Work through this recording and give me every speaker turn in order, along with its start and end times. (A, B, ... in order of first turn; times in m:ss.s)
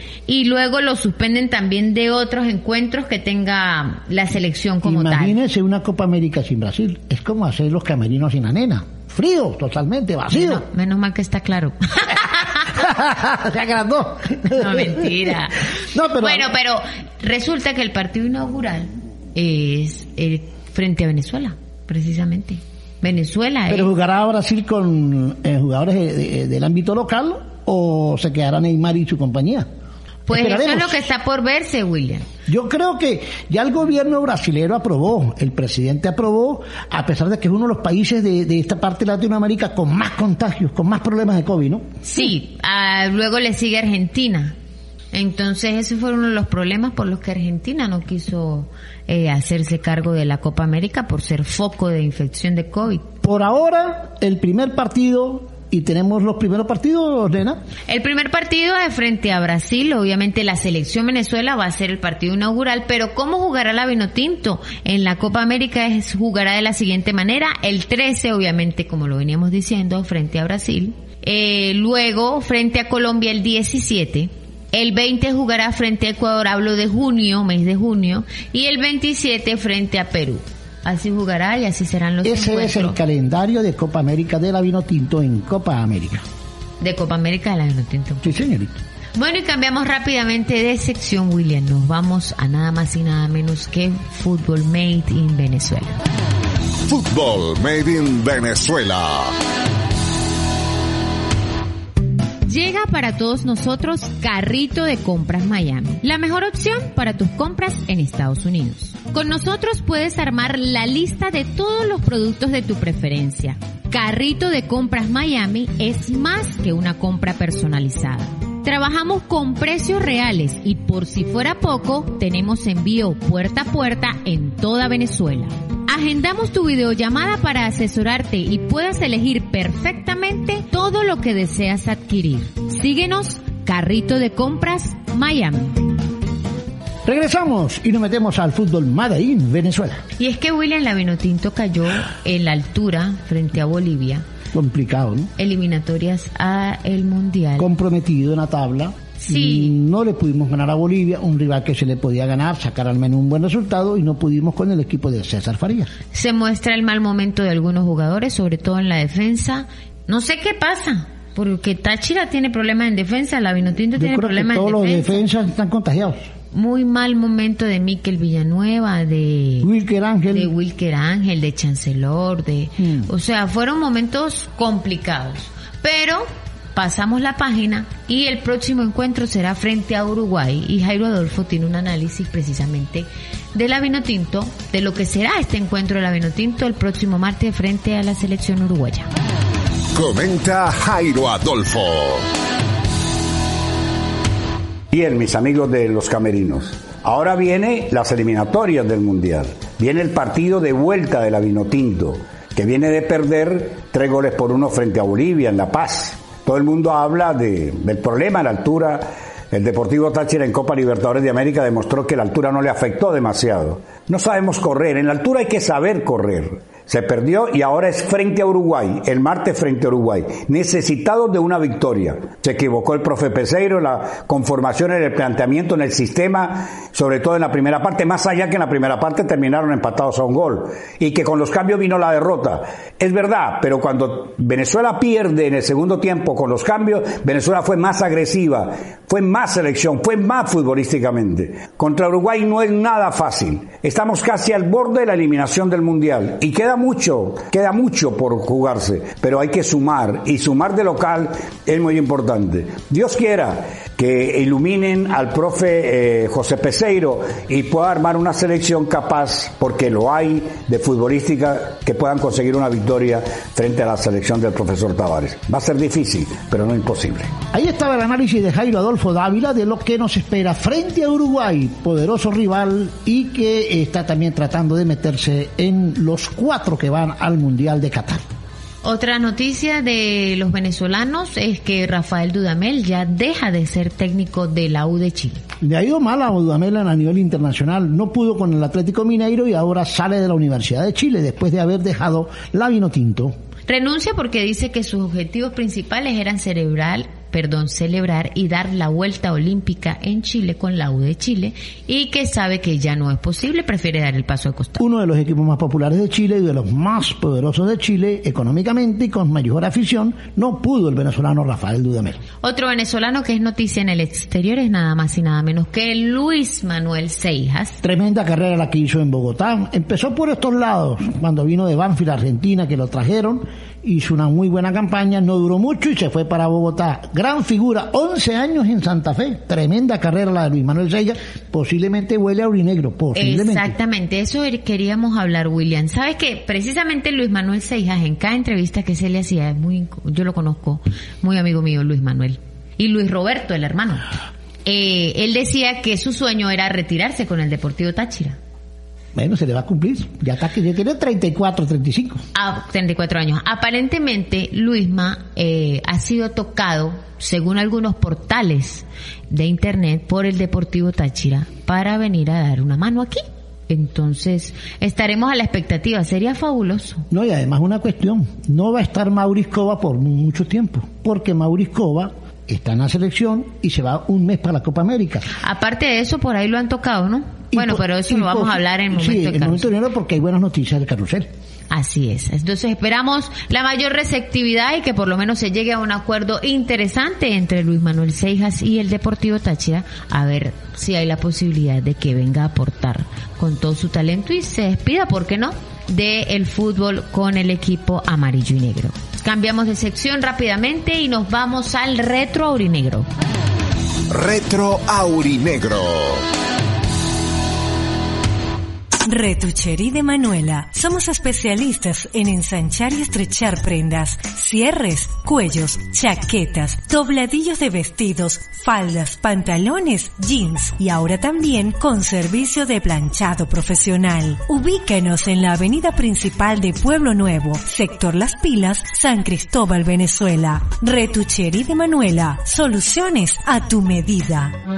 0:00.3-0:05.4 A
0:04.8-0:10.6 B
0:10.3-0:12.8 A
0:12.7-0:16.5 B
0:14.5-0:15.6 A
0:16.2-0:23.9 A
0:23.7-0:29.7 B
0:30.3-0:32.2 A
0:30.3-0:31.0 B
0:32.5-0:41.8 B
0:42.0-0:44.6 A
0:45.1-0:53.1 A
0:53.2-0:57.6 B
0:57.9-1:23.0 A
1:22.2-1:26.2 B
1:26.8-1:28.2 A
1:28.2-1:28.8 B
1:29.2-1:36.0 A
1:36.9-1:39.3 C
1:42.4-2:15.9 A
2:17.1-2:20.0 B
2:20.2-2:24.2 A
2:24.5-2:25.3 B
2:25.4-2:27.7 A
2:27.6-2:35.9 B
2:29.2-2:29.7 A
2:36.1-2:45.2 A
2:44.0-2:46.3 B
2:46.5-2:49.7 A
2:49.6-2:50.5 B
2:50.3-3:09.1 A
2:52.8-2:53.1 B
3:10.0-3:12.2 C
3:14.9-4:27.3 D
4:27.5-4:38.2 B
4:38.8-4:45.4 A
4:45.6-4:53.4 B
4:53.7-5:04.8 A
5:04.8-5:12.2 B
5:12.4-5:17.8 A
5:17.8-5:33.7 B
5:33.2-5:44.0 A
5:44.6-5:48.4 A
5:49.1-5:52.2 B
5:52.3-6:07.0 A
6:07.1-6:15.3 B
6:15.4-6:19.7 A
6:17.5-6:21.3 B
6:21.7-6:43.1 A
6:44.1-6:46.2 C
6:49.0-7:14.6 E